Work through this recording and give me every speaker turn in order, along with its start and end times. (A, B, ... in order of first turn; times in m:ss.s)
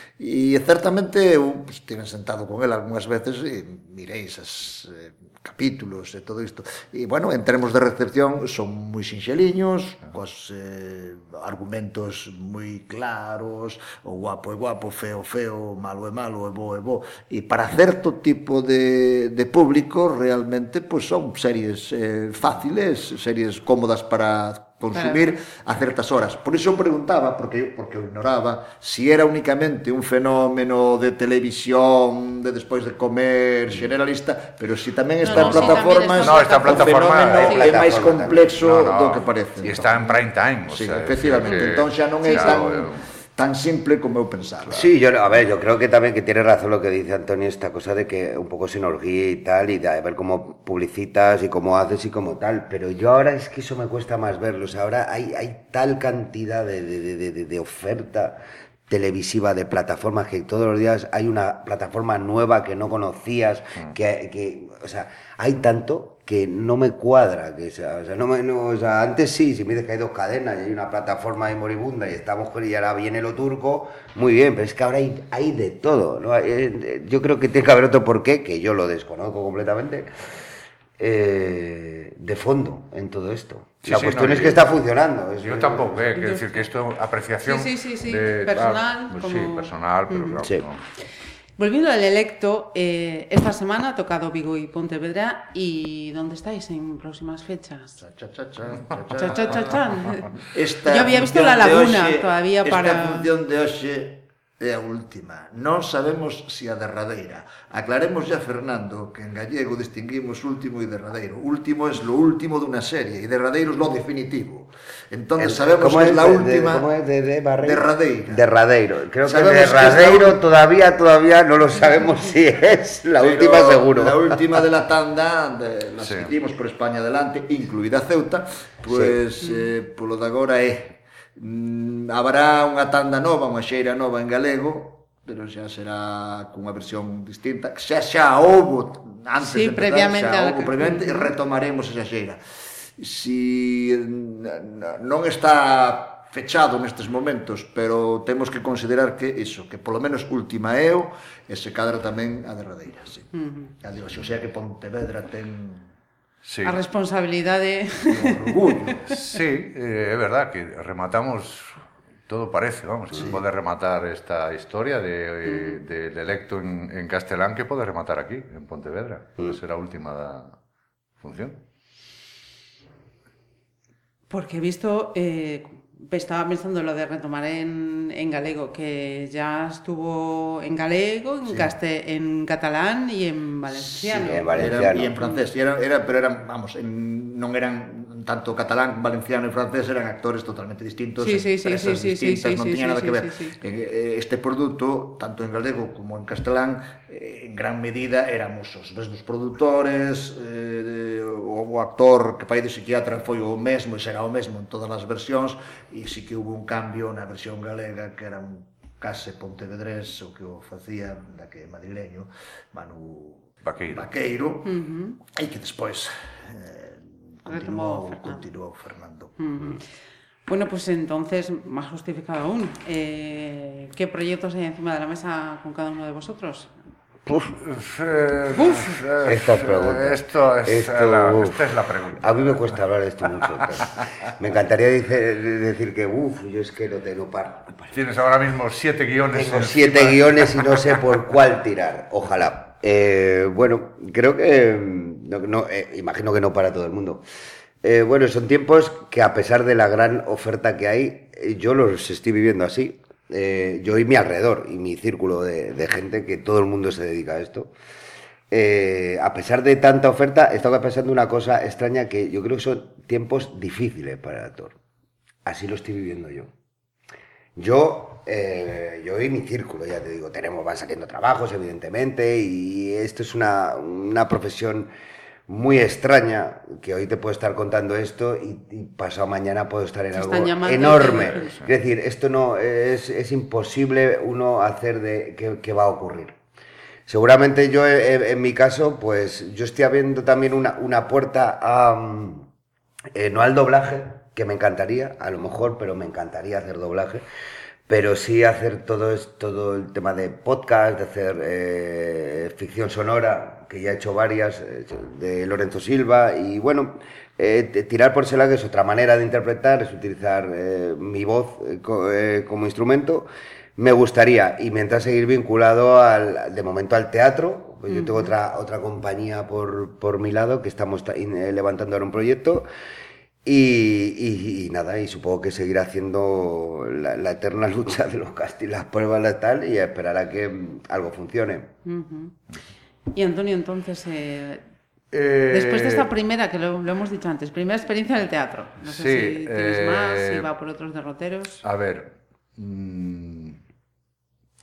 0:00.2-0:44.9 A
0:24.9-0:25.4 B
0:35.2-0:37.7 B
0:35.3-0:37.7 C
0:37.3-0:38.5 D
0:38.3-0:43.0 C
0:41.4-0:41.7 B
0:42.2-0:42.8 B
0:44.7-1:20.1 D
1:21.0-1:26.1 D
1:23.8-1:24.7 C
1:25.4-1:30.8 C
1:26.1-1:26.6 B
1:27.4-1:30.4 B
1:31.6-1:38.0 B
1:38.0-1:39.8 A
1:39.2-1:43.3 B
1:40.5-1:56.9 A
1:55.4-2:04.6 D
1:57.6-1:58.4 A
1:59.2-2:00.4 A
2:03.2-2:22.4 A
2:06.0-2:06.3 C
2:08.9-2:09.2 D
2:09.4-2:09.7 B
2:19.4-2:21.3 B
2:23.0-2:35.9 A
2:33.3-2:33.7 B
2:36.4-2:36.8 C
2:36.6-2:39.4 B
2:38.1-2:39.1 A
2:39.0-2:50.6 C
2:43.2-2:43.4 A
2:45.4-2:45.8 B
2:51.2-2:51.6 C
2:54.3-3:04.5 B
3:01.4-3:01.7 A
3:03.7-3:34.7 A
3:04.2-3:05.1 D
3:05.2-3:05.5 B
3:11.2-3:13.6 B
3:33.6-3:34.1 C
3:34.6-3:35.2 B
3:35.3-3:39.3 A
3:37.5-3:38.4 B
3:39.4-3:39.8 B
3:40.5-3:46.7 B
3:47.3-3:52.8 C
3:49.2-3:51.6 D
3:52.2-3:58.0 D
3:53.4-3:54.1 C
3:57.9-4:01.0 C
3:59.3-4:07.2 D
4:07.8-4:17.7 D
4:18.5-4:24.8 D
4:25.4-4:26.5 D
4:27.6-4:34.9 D
4:35.5-4:46.4 D
4:40.1-4:41.5 B
4:41.1-4:41.7 C
4:47.1-4:52.5 D
4:53.1-4:57.2 D
4:57.9-5:22.7 D
5:17.9-5:18.3 B
5:23.4-5:31.7 D
5:31.8-5:32.3 B
5:33.1-5:34.6 B
5:35.1-5:36.1 C
5:35.5-5:41.6 B
5:38.8-5:40.5 C
5:41.6-5:43.6 C